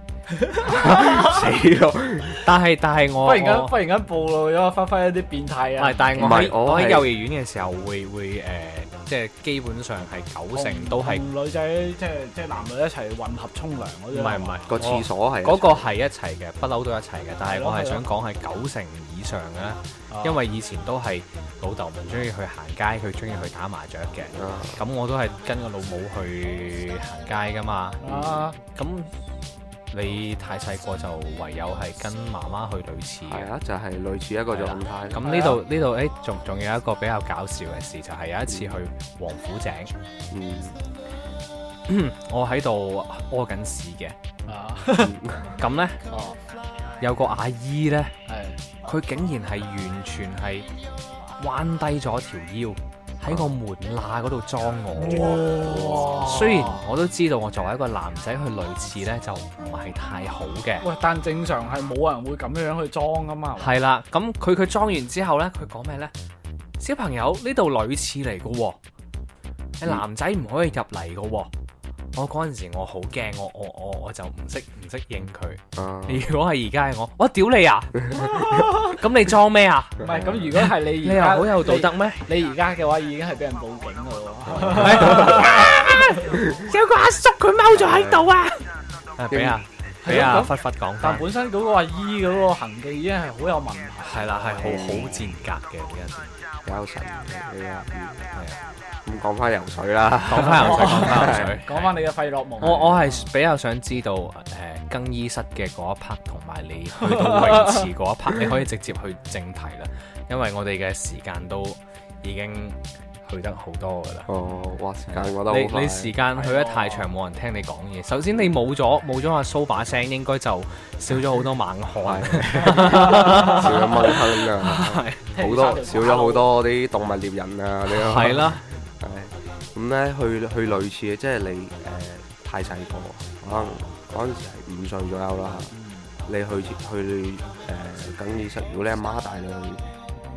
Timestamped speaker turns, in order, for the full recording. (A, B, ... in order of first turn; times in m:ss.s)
0:00.5-0:01.0 A
0:00.6-0:02.5 B
0:02.3-0:03.8 C
0:03.2-0:06.3 A
0:05.8-0:11.3 C
0:06.2-0:07.1 B
0:10.5-0:14.6 A
0:14.1-0:28.0 C
0:14.7-0:15.8 B
0:17.5-0:18.0 A
0:20.1-0:20.4 A
0:24.3-0:24.8 B
0:28.0-0:28.6 A
0:28.1-0:28.5 B
0:28.6-0:29.1 C
0:29.9-0:33.5 C
0:33.3-0:35.2 B
0:34.5-0:39.9 C
0:35.2-0:35.6 A
0:38.5-0:38.8 B
0:40.3-0:40.8 B
0:41.9-0:44.2 C
0:44.5-0:45.2 A
0:45.0-0:45.6 B
0:45.6-0:46.0 C
0:46.1-0:46.4 A
0:47.0-0:48.1 C
0:48.3-0:48.6 A
0:48.8-0:50.7 C
0:51.4-1:00.8 C
0:53.3-0:53.5 B
0:55.0-0:56.8 A
0:55.7-0:56.2 B
1:00.8-1:03.7 A
1:03.6-1:06.1 C
1:06.8-1:08.8 C
1:09.8-1:11.5 C
1:12.2-1:20.0 C
1:15.8-1:16.3 B
1:18.2-1:18.7 A
1:20.0-1:20.6 B
1:20.0-1:26.4 A
1:20.6-1:22.3 C
1:24.7-1:28.7 C
1:27.7-1:28.3 B
1:29.2-1:31.3 C
1:29.3-1:30.4 B
1:30.0-1:34.6 A
1:34.0-1:36.3 C
1:34.6-1:35.3 B
1:36.6-1:38.2 B
1:38.3-1:38.6 C
1:39.0-1:41.6 B
1:40.2-1:41.9 C
1:40.5-1:43.3 A
1:42.6-1:54.3 C
1:47.0-1:47.8 A
1:54.3-1:56.2 B
1:55.1-2:05.3 C
1:56.4-1:57.1 A
2:02.0-2:15.7 B
2:03.2-2:03.6 A
2:05.3-2:06.5 A
2:07.9-2:08.6 C
2:15.7-2:16.1 A
2:16.3-2:19.8 B